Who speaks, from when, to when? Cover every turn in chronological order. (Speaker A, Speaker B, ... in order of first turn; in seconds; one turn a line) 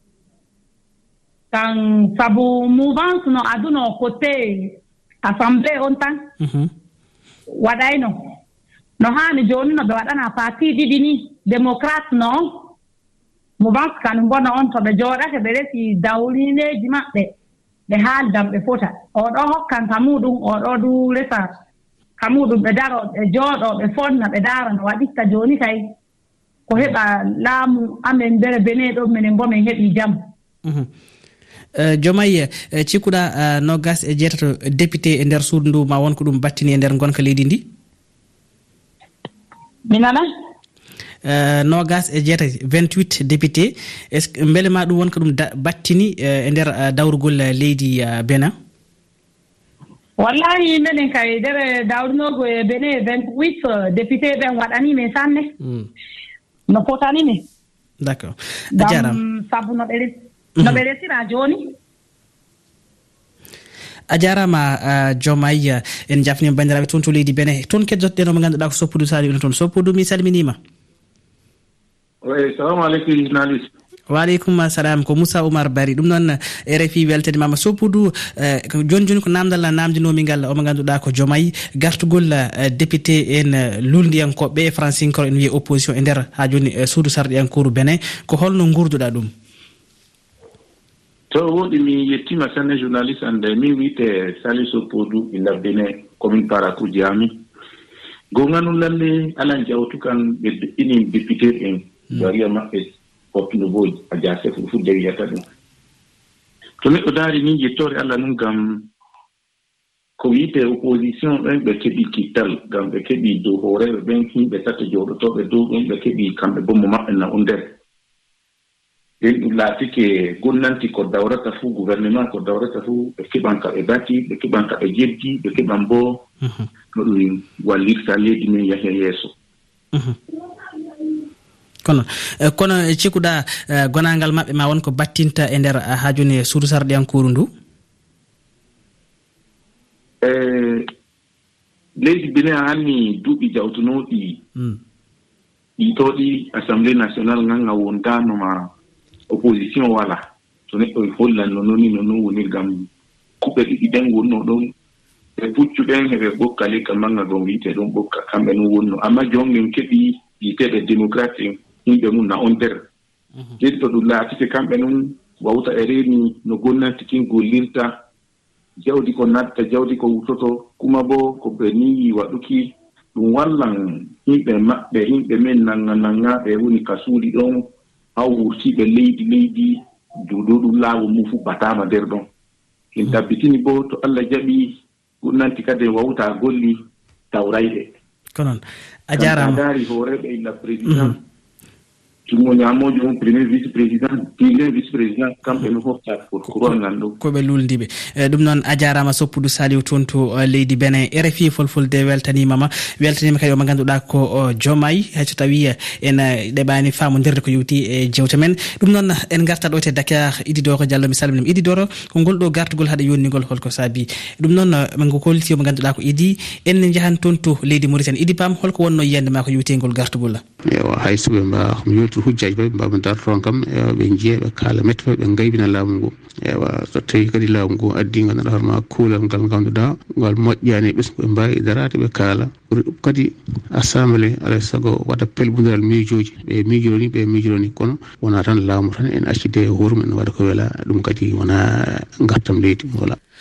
Speaker A: 1.5-6.2
Speaker B: 6.4-6.7
Speaker A: 7.5-8.1
Speaker A: 9.0-12.7
Speaker A: 13.6-17.3
Speaker A: 17.9-21.5
Speaker A: 22.2-25.8
Speaker A: 26.7-30.2
Speaker B: 31.7-37.6
Speaker A: 39.9-40.2
Speaker B: 41.2-48.5
Speaker A: 50.2-55.5
Speaker A: 56.7-57.4
Speaker B: 58.0-59.2
Speaker A: 58.7-61.7
Speaker B: 64.1-70.6
Speaker C: 72.2-73.7
Speaker B: 74.1-89.3
Speaker C: 91.3-97.4
Speaker C: 98.3-105.4
Speaker C: 106.8-108.9
Speaker C: 110.2-117.8
Speaker C: 119.2-126.2
Speaker B: 126.4-126.7
Speaker C: 126.9-129.3
Speaker B: 131.8-137.5
Speaker C: 140.2-140.8
Speaker C: 141.9-144.4
Speaker C: 145.8-148.7
Speaker C: 149.3-152.9
Speaker C: 153.4-154.7
Speaker C: 155.4-162.8
Speaker C: 163.6-168.0
Speaker C: 168.8-182.2
Speaker C: 182.9-186.8
Speaker C: 187.3-187.9
Speaker B: 188.3-189.6
Speaker C: 189.1-191.2
Speaker B: 190.8-191.1
Speaker C: 192.3-197.1
Speaker B: 196.5-220.4
Speaker D: 220.7-243.2